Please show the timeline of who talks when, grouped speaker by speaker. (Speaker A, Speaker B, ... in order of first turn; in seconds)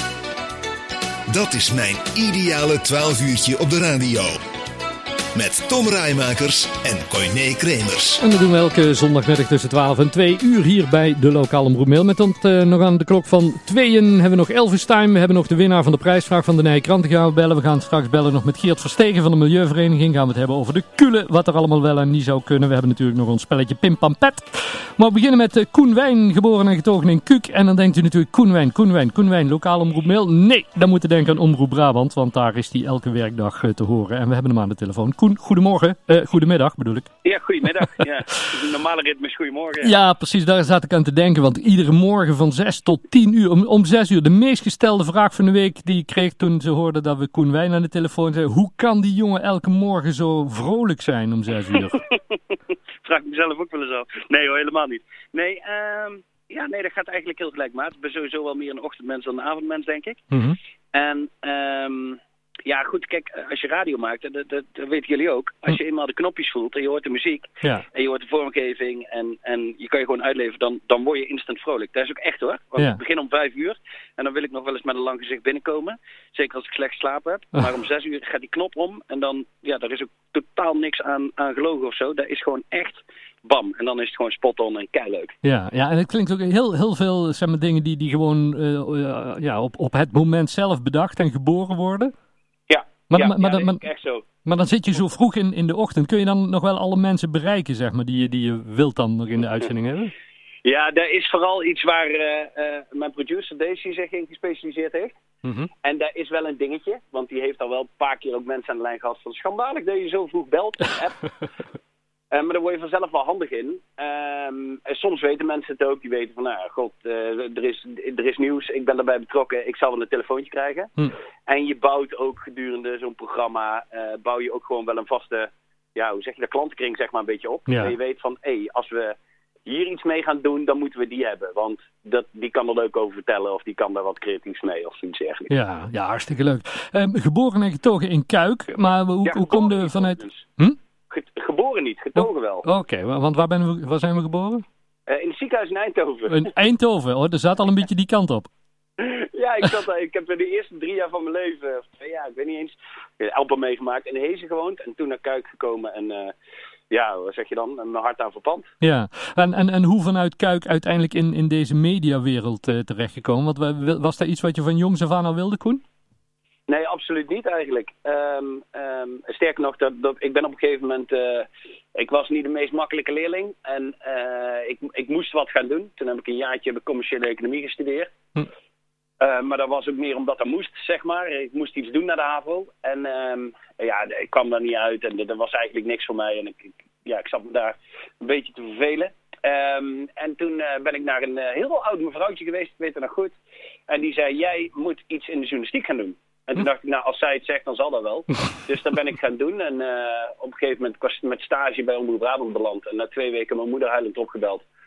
Speaker A: 1.3-4.4, 5.3-8.2
Speaker B: 8.2-37.1, 39.8-52.0, 60.3-60.6, 85.4-92.1, 93.1-93.8, 94.4-100.1, 105.4-105.7, 127.7-127.9, 135.5-140.8, 142.2-144.6, 146.3-148.5, 158.8-165.8
Speaker C: 37.2-39.9, 53.0-60.2, 60.9-85.3, 92.7-94.2, 100.6-105.2, 105.8-111.2, 112.3-120.9, 121.5-135.5, 139.2-140.4, 141.1-142.7, 145.1-146.5, 149.0-156.3, 156.9-158.7, 166.7-178.1, 179.2-193.3, 193.9-204.6